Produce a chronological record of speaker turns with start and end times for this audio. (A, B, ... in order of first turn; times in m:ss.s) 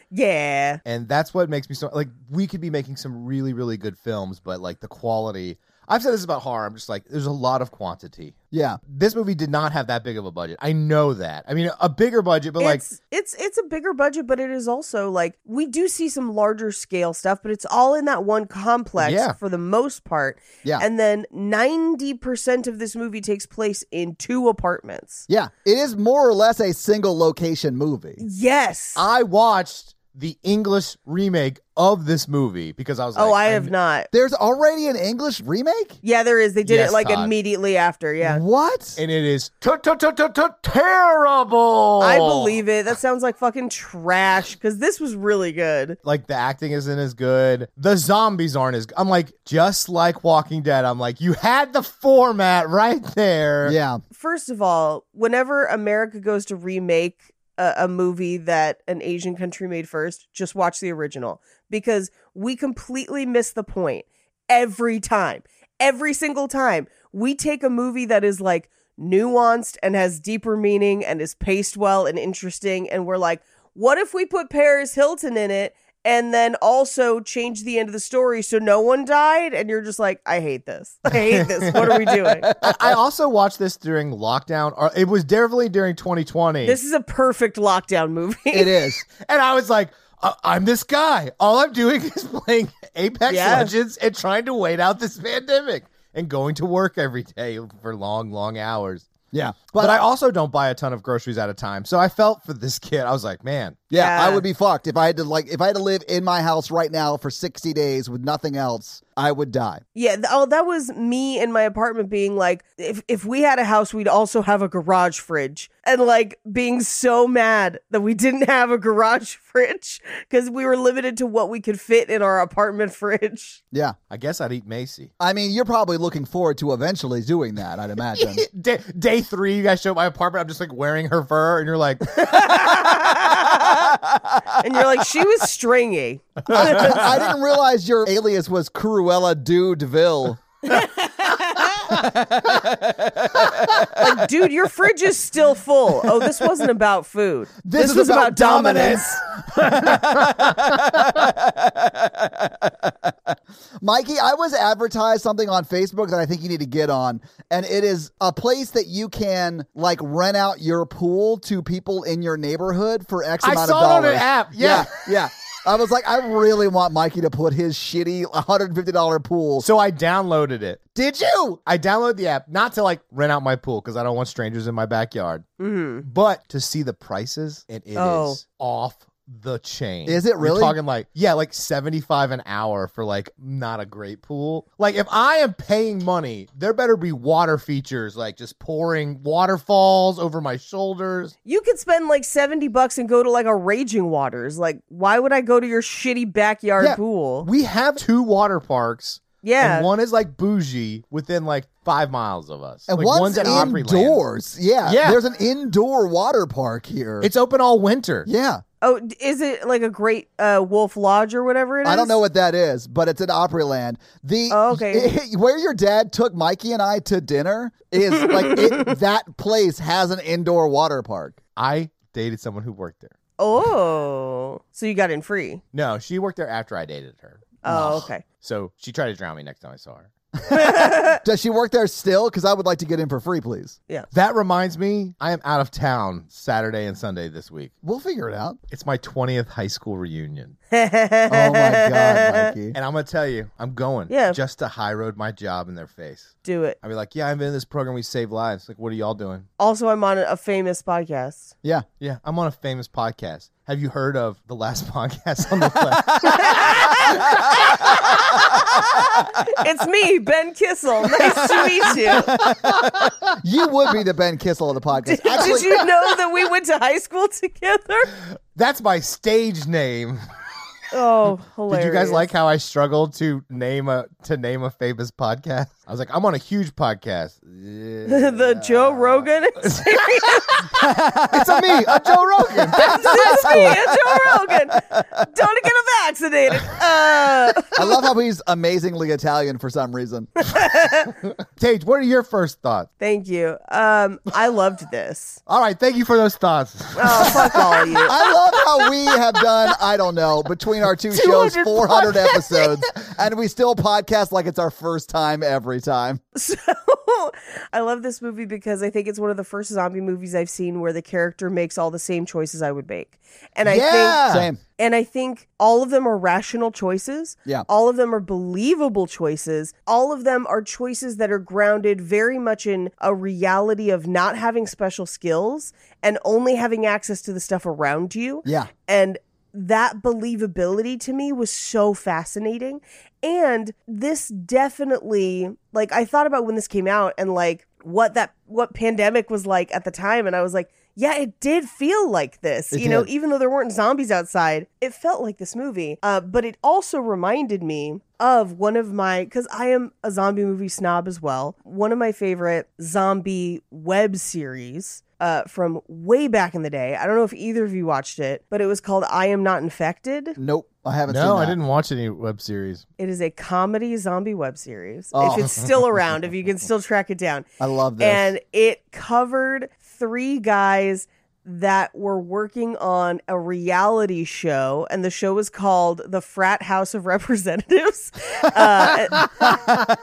0:00.1-0:00.8 A
0:00.8-0:08.3 B
0:08.5-0:08.8 C
0:08.9-0:12.8 B
0:12.6-0:25.2 A
0:19.0-0:19.4 B
0:25.3-0:28.2 C
0:28.2-0:29.0 A
0:29.0-0:33.7 B
0:33.2-0:34.1 A
0:34.1-0:36.0 C
0:36.0-0:38.4 A
0:36.6-0:37.3 B
0:38.2-0:39.0 C
0:39.0-0:42.6 B
0:42.0-0:46.0 A
0:46.0-0:53.8 B
0:53.6-0:54.0 C
0:54.1-1:22.5 A
1:21.3-1:26.8 B
1:22.4-1:23.0 C
1:26.6-1:28.8 A
1:28.5-1:29.0 C
1:29.1-1:39.1 B
1:33.3-1:33.7 A
1:39.3-1:40.0 C
1:39.8-1:43.8 B
1:43.9-1:49.8 C
1:43.9-1:44.4 A
1:49.9-2:03.6 A
2:04.1-2:05.1 B
2:05.2-2:08.4 C
2:08.2-2:13.1 B
2:12.2-2:13.8 A
2:13.8-2:14.2 C
2:14.6-2:17.1 A
2:16.5-2:20.4 C
2:16.5-2:17.1 B
2:20.6-2:21.9 A
2:21.8-2:24.0 C
2:23.7-2:29.2 A
2:27.6-2:49.7 C
2:29.6-2:30.4 B
2:43.4-2:45.0 B
2:49.6-2:50.8 B
2:50.9-2:51.6 C
2:51.7-2:55.5 B
2:55.6-2:56.0 A
2:56.0-3:11.3 B
2:57.9-2:58.4 A
3:00.0-3:00.8 C
3:11.4-3:17.5 A
3:17.4-3:24.2 B
3:19.4-3:19.9 A
3:22.9-3:27.3 C
3:23.3-3:23.7 A
3:24.8-3:25.2 B
3:27.2-3:28.3 B
3:28.2-3:28.6 C
3:28.8-3:32.2 A
3:31.8-3:41.4 C
3:34.5-3:35.1 A
3:38.2-3:38.9 A
3:41.6-3:43.1 B
3:43.4-3:45.6 A
3:45.7-3:50.1 B
3:47.6-3:48.2 A
3:47.7-3:48.0 C
3:50.5-3:51.2 A
3:50.5-3:53.8 C
3:54.1-3:57.7 B
3:57.8-3:58.6 C
3:58.7-4:00.6 B
4:00.7-4:02.5 A
4:01.3-4:02.8 C
4:02.7-4:09.5 B
4:04.1-4:04.4 A
4:06.4-4:06.8 A
4:09.6-4:11.5 A
4:12.0-4:18.4 B
4:15.9-4:19.0 C
4:16.2-4:22.4 A
4:21.2-4:26.1 C
4:22.4-4:23.3 B
4:25.0-4:28.1 A
4:28.5-4:30.2 B
4:30.9-4:32.2 A
4:31.7-4:43.8 B
4:38.0-4:40.7 A
4:40.7-4:44.5 C
4:42.8-4:47.9 A
4:47.8-4:50.3 C
4:50.4-4:51.1 A
4:51.5-4:52.9 B
4:53.0-4:55.4 A
4:55.5-4:57.9 B
4:57.0-4:58.2 A
4:58.0-5:06.2 C
5:01.1-5:02.7 A
5:06.4-5:14.2 A
5:13.6-5:14.6 C
5:14.2-5:14.5 B
5:14.8-6:00.4 A
5:28.4-5:28.7 C
5:42.7-5:43.1 C
6:00.4-6:01.6 C
6:01.1-6:02.8 B
6:03.0-6:07.5 A
6:05.1-6:05.6 C
6:07.6-6:08.3 C
6:08.0-6:19.6 A
6:19.2-6:19.8 B